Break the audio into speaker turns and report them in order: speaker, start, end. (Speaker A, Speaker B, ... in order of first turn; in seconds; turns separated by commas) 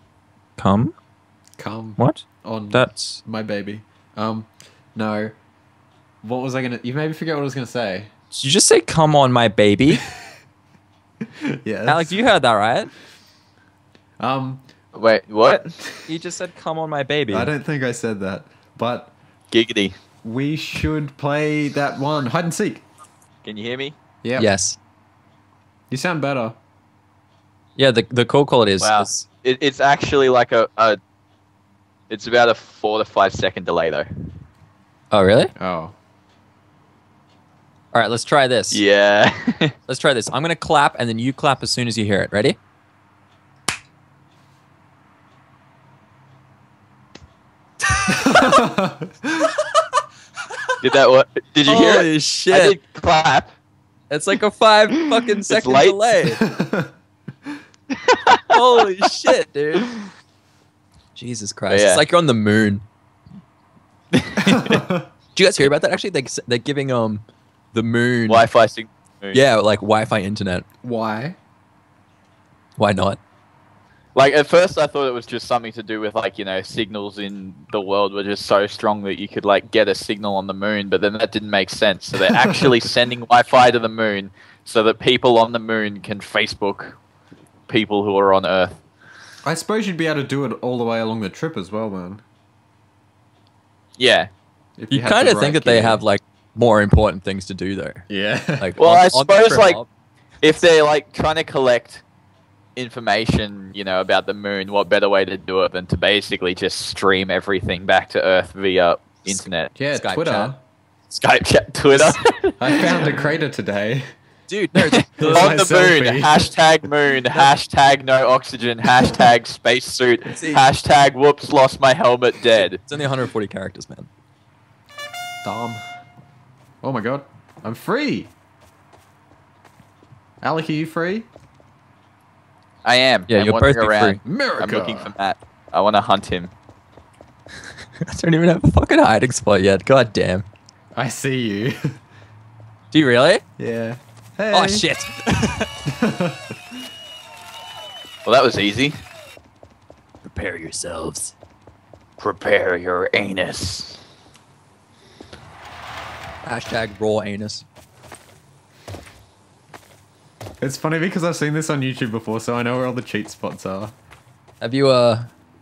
Speaker A: 0.6-0.9, Speaker B: 1.6-5.3, Speaker A: 2.0-3.2, Speaker B: 6.2-8.1, Speaker A: 8.3-10.0, Speaker B: 11.6-12.2, Speaker A: 11.9-12.9, Speaker B: 14.2-14.6, Speaker C: 14.9-15.7, Speaker A: 16.1-17.5, Speaker B: 17.3-19.1, Speaker C: 19.5-20.0, Speaker B: 20.2-22.9, Speaker C: 23.4-24.0, Speaker B: 24.2-24.5, Speaker A: 24.4-24.8, Speaker B: 25.9-26.6, Speaker A: 27.8-29.3, Speaker C: 28.8-31.0, Speaker C: 32.1-34.1, Speaker A: 35.1-35.5, Speaker B: 35.6-36.0, Speaker A: 37.9-38.8, Speaker C: 38.7-39.7, Speaker A: 39.9-42.6, Speaker B: 48.0-49.5, Speaker C: 50.8-53.5, Speaker A: 51.6-52.8, Speaker A: 54.1-56.4, Speaker C: 55.1-56.0, Speaker B: 56.3-56.9, Speaker C: 57.9-58.6, Speaker A: 58.5-59.9, Speaker A: 61.2-62.8, Speaker C: 61.7-62.0, Speaker C: 64.1-64.8, Speaker B: 64.4-65.1, Speaker A: 65.3-68.4, Speaker C: 68.3-69.4, Speaker A: 69.3-70.6, Speaker B: 70.8-71.4, Speaker A: 72.8-73.2, Speaker C: 74.1-87.0, Speaker B: 82.2-82.8, Speaker C: 87.7-88.8, Speaker B: 89.4-92.2, Speaker C: 94.0-94.3, Speaker B: 94.8-96.0, Speaker A: 94.9-98.0, Speaker B: 98.1-98.7, Speaker A: 98.6-99.9, Speaker C: 98.8-99.8, Speaker C: 100.4-102.0, Speaker C: 102.8-109.7, Speaker A: 109.3-110.5, Speaker B: 109.8-110.6, Speaker C: 111.2-113.2, Speaker A: 111.9-112.2, Speaker B: 112.6-114.0, Speaker A: 114.5-115.6, Speaker C: 114.8-122.8, Speaker B: 115.2-116.5, Speaker A: 120.2-120.6, Speaker A: 122.4-124.1, Speaker B: 125.4-125.8, Speaker B: 126.8-128.3, Speaker B: 130.4-131.3, Speaker C: 132.8-136.5, Speaker A: 133.3-134.2, Speaker B: 134.2-135.1, Speaker A: 138.0-140.5, Speaker B: 140.9-141.8, Speaker A: 142.9-143.4, Speaker B: 143.6-144.9, Speaker A: 144.5-145.7, Speaker B: 145.9-146.5, Speaker C: 148.2-149.0, Speaker A: 150.2-151.3, Speaker C: 152.2-154.0, Speaker A: 156.4-157.7, Speaker B: 160.6-163.9, Speaker A: 164.6-165.3